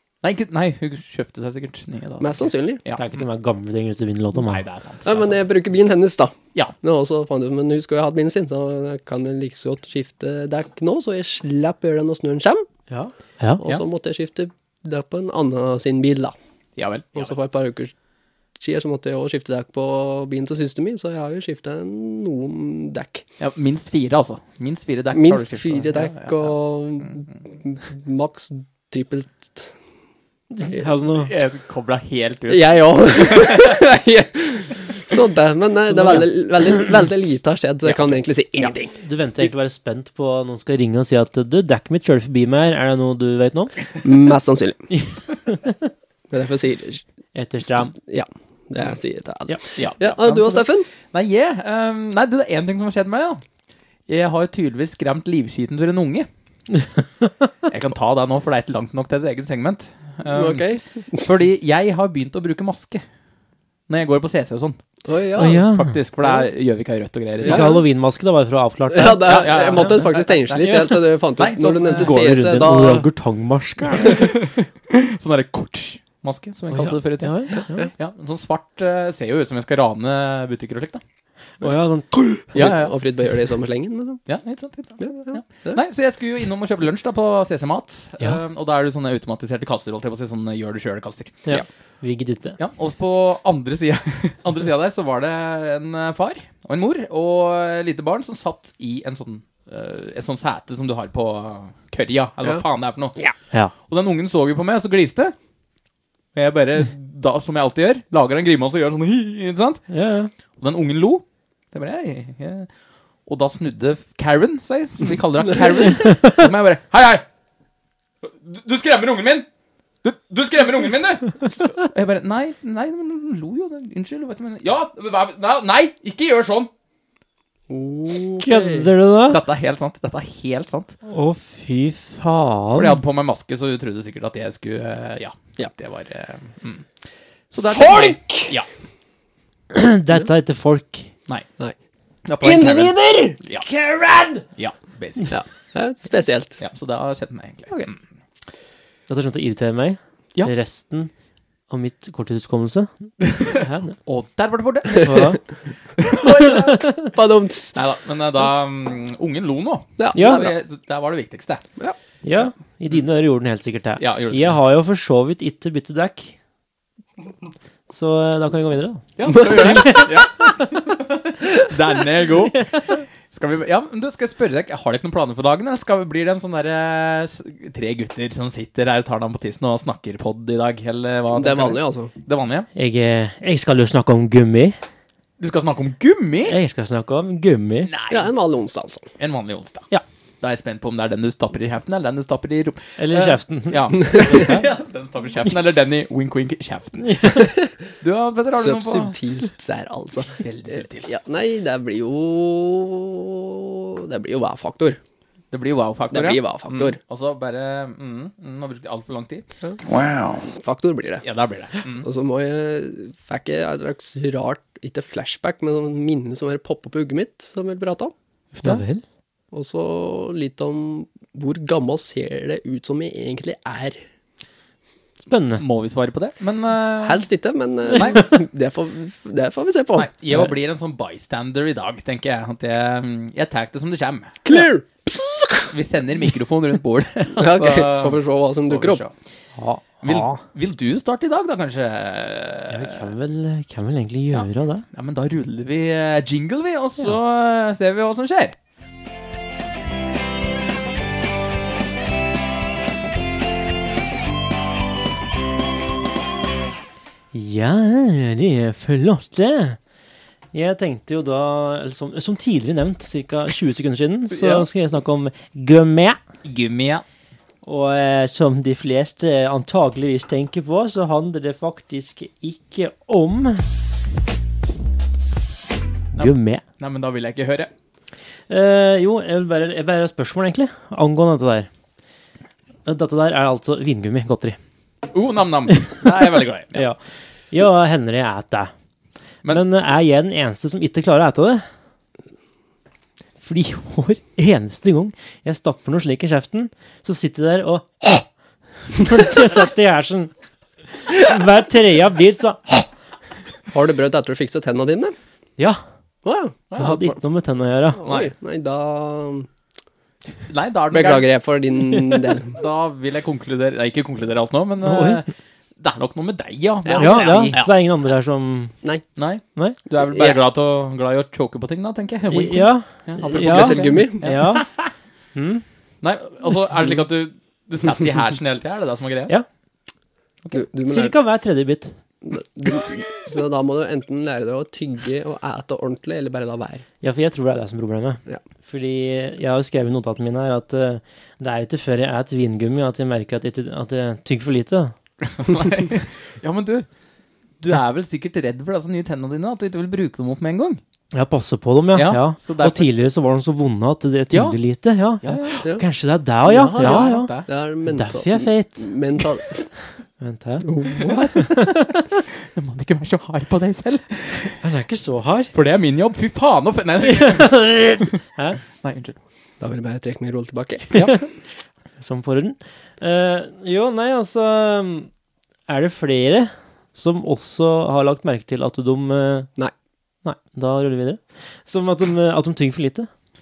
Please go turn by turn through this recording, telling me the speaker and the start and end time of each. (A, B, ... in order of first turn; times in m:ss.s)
0:00.2-0:03.1 A
0:02.2-0:02.8 B
0:02.9-0:04.6 C
0:04.3-0:05.4 A
0:05.0-0:12.6 B
0:12.9-0:13.6 C
0:13.6-0:16.3 B
0:16.8-0:17.3 A
0:17.1-0:17.9 B
0:18.6-0:23.2 B
0:23.4-0:26.5 A
0:25.1-0:29.7 B
0:30.5-0:31.3 C
0:31.2-0:33.8 A
0:32.5-0:39.0 B
0:36.0-0:36.2 C
0:37.8-0:38.7 A
0:38.9-0:43.8 C
0:44.0-0:44.9 B
0:45.1-0:45.7 C
0:46.3-0:47.0 B
0:47.3-0:47.9 C
0:47.6-0:50.9 B
0:49.8-0:53.4 A
0:54.1-0:56.3 A
0:57.7-1:03.0 A
1:00.2-1:01.2 B
1:03.9-1:04.8 A
1:05.0-1:05.6 B
1:05.4-1:06.0 C
1:05.5-1:07.8 A
1:07.4-1:07.8 B
1:07.4-1:09.8 C
1:08.9-1:13.1 B
1:09.2-1:12.3 A
1:11.9-1:14.3 C
1:13.9-1:21.0 A
1:16.7-1:17.9 C
1:17.6-1:17.9 B
1:21.6-1:22.6 C
1:22.5-1:24.2 B
1:22.5-1:22.9 A
1:24.3-1:31.4 A
1:25.0-1:25.8 B
1:31.4-1:32.6 C
1:32.6-1:43.2 A
1:43.8-1:45.3 A
1:46.3-1:49.8 A
1:49.9-1:50.3 C
1:50.6-1:52.7 A
1:53.3-1:57.2 A
1:58.2-1:59.5 A
2:00.0-2:06.7 A
2:07.7-2:08.9 B
2:08.4-2:09.4 C
2:09.3-2:10.9 A
2:11.0-2:13.0 C
2:12.7-2:16.8 A
2:17.5-2:18.7 A
2:17.6-2:18.6 B
2:19.7-2:21.1 C
2:22.2-2:23.6 A
2:22.4-2:23.4 B
2:23.6-2:24.4 C
2:24.6-2:25.4 A
2:25.3-2:26.6 B
2:26.6-2:28.0 A
2:29.1-2:31.1 C
2:31.7-2:34.0 C
2:34.0-2:35.3 A
2:34.9-2:35.4 C
2:36.0-2:37.0 A
2:36.6-2:37.0 C
2:37.1-2:37.8 B
2:37.7-2:41.6 A
2:40.0-2:40.6 B
2:40.1-2:40.5 C
2:42.2-2:46.3 C
2:44.0-2:44.6 A
2:47.9-2:50.1 C
2:49.2-3:02.7 A
3:01.3-3:02.1 B
3:02.7-3:04.8 C
3:05.4-3:06.6 A
3:06.5-3:07.9 C
3:07.8-3:08.3 A
3:08.1-3:09.0 B
3:09.2-3:09.9 A
3:10.4-3:19.2 A
3:13.0-3:14.6 C
3:17.0-3:17.4 C
3:17.4-3:17.7 B
3:18.5-3:25.0 B
3:20.4-3:21.2 A
3:25.5-3:30.4 A
3:26.1-3:27.0 B
3:30.5-3:31.2 B
3:31.2-3:32.0 A
3:31.9-3:38.1 B
3:38.6-3:39.0 C
3:39.5-3:44.0 B
3:45.3-3:45.6 C
3:45.6-3:47.2 A
3:47.0-3:50.1 B
3:47.9-3:48.3 A
3:49.9-3:54.4 A
3:54.4-3:55.7 B
3:55.7-3:59.1 A
3:57.3-3:59.0 B
3:59.6-4:00.4 C
4:00.0-4:03.1 A
4:02.7-4:04.8 C
4:04.3-4:08.5 A
4:17.3-4:19.8 C
4:20.5-4:26.2 C
4:24.3-4:24.7 A
4:26.4-4:27.0 A
4:27.6-4:33.6 C
4:36.1-4:36.6 C
4:36.2-4:37.7 A
4:38.5-4:41.7 C
4:42.8-4:44.6 C
4:45.1-4:46.8 A
4:46.7-4:47.0 C
4:47.5-4:48.7 C
4:49.5-4:51.6 C
4:53.4-4:58.2 C
4:58.9-5:00.3 C
5:01.0-5:02.9 C
5:03.7-5:05.1 B
5:06.2-5:06.6 B
5:06.7-5:07.2 A
5:06.8-5:08.0 C
5:08.0-5:09.5 B
5:08.0-5:08.3 A
5:10.5-5:11.3 A
5:10.9-5:12.6 B
5:12.5-5:17.7 A
5:14.8-5:15.2 C
5:16.8-5:17.6 B
5:16.9-5:18.7 C
5:19.2-5:24.7 A
5:20.1-5:20.4 B
5:22.3-5:24.7 C
5:23.3-5:24.3 B
5:25.3-5:25.6 C
5:26.0-5:29.3 A
5:30.5-5:31.1 B
5:30.9-5:31.9 C
5:32.2-5:36.8 B
5:37.0-5:44.9 C
5:45.2-5:46.9 A
5:47.6-5:50.8 A
5:51.1-5:57.3 C
5:51.9-5:52.9 A
5:54.3-5:54.6 A
5:55.2-5:55.6 A
5:56.4-5:59.7 B
5:56.7-5:57.5 A
5:57.9-5:58.9 C
6:00.2-6:02.0 C
6:00.6-6:01.3 B
6:01.0-6:02.0 A
6:02.5-6:04.6 A
6:04.6-6:05.5 C
6:05.5-6:08.2 A
6:07.0-6:08.6 C
6:08.8-6:09.2 A
6:09.6-6:10.9 B
6:10.9-6:11.2 A
6:12.0-6:15.1 C
6:15.7-6:19.5 C
6:20.2-6:23.1 C